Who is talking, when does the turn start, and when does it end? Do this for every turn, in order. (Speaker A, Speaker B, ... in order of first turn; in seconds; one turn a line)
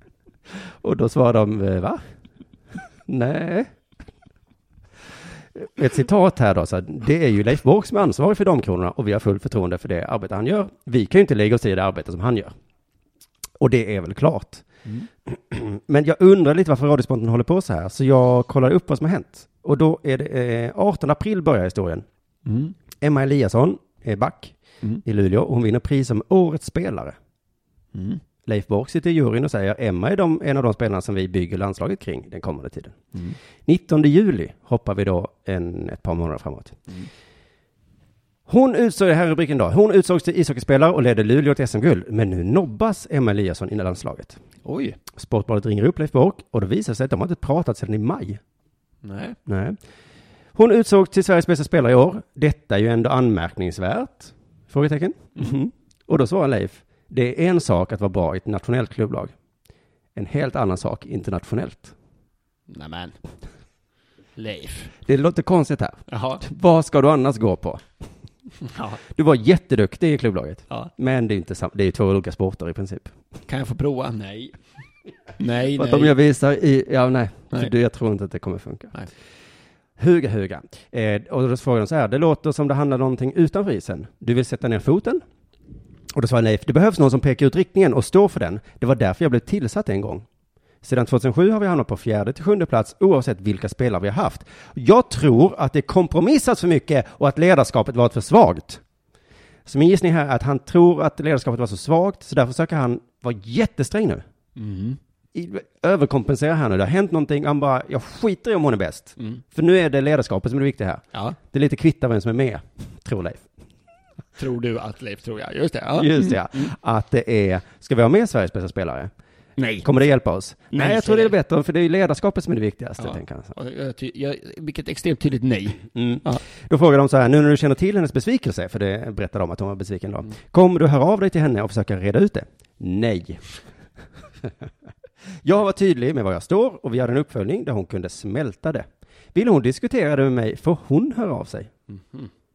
Speaker A: 0.6-2.0
Speaker A: 3.1-3.7
Speaker A: 5.5-12.5
Speaker A: 13.6-14.7
Speaker A: 15.3-22.1
Speaker B: 22.5-22.8
Speaker A: 23.0-27.2
Speaker B: 27.9-28.2
Speaker A: 28.5-33.0
Speaker A: 33.7-36.8
Speaker A: 38.5-44.4
Speaker B: 44.6-45.0
Speaker A: 45.1-48.4
Speaker B: 49.0-49.4
Speaker A: 49.5-49.8
Speaker A: 50.5-59.3
Speaker A: 60.1-61.9
Speaker B: 62.7-63.2
Speaker B: 64.4-64.9
Speaker A: 65.0-67.8
Speaker B: 66.1-66.4
Speaker B: 68.6-69.0
Speaker A: 69.1-73.1
Speaker B: 73.5-74.6
Speaker B: 75.4-76.2
Speaker A: 75.7-79.0
Speaker A: 80.0-85.2
Speaker A: 86.1-90.3
Speaker A: 90.8-98.8
Speaker A: 99.7-104.2
Speaker B: 104.6-105.0
Speaker A: 105.3-113.5
Speaker B: 114.4-116.7
Speaker A: 116.0-119.1
Speaker B: 119.6-119.9
Speaker A: 119.8-123.5
Speaker B: 120.7-121.3
Speaker B: 123.0-126.4
Speaker A: 125.9-133.4
Speaker A: 135.4-141.7
Speaker B: 141.9-142.3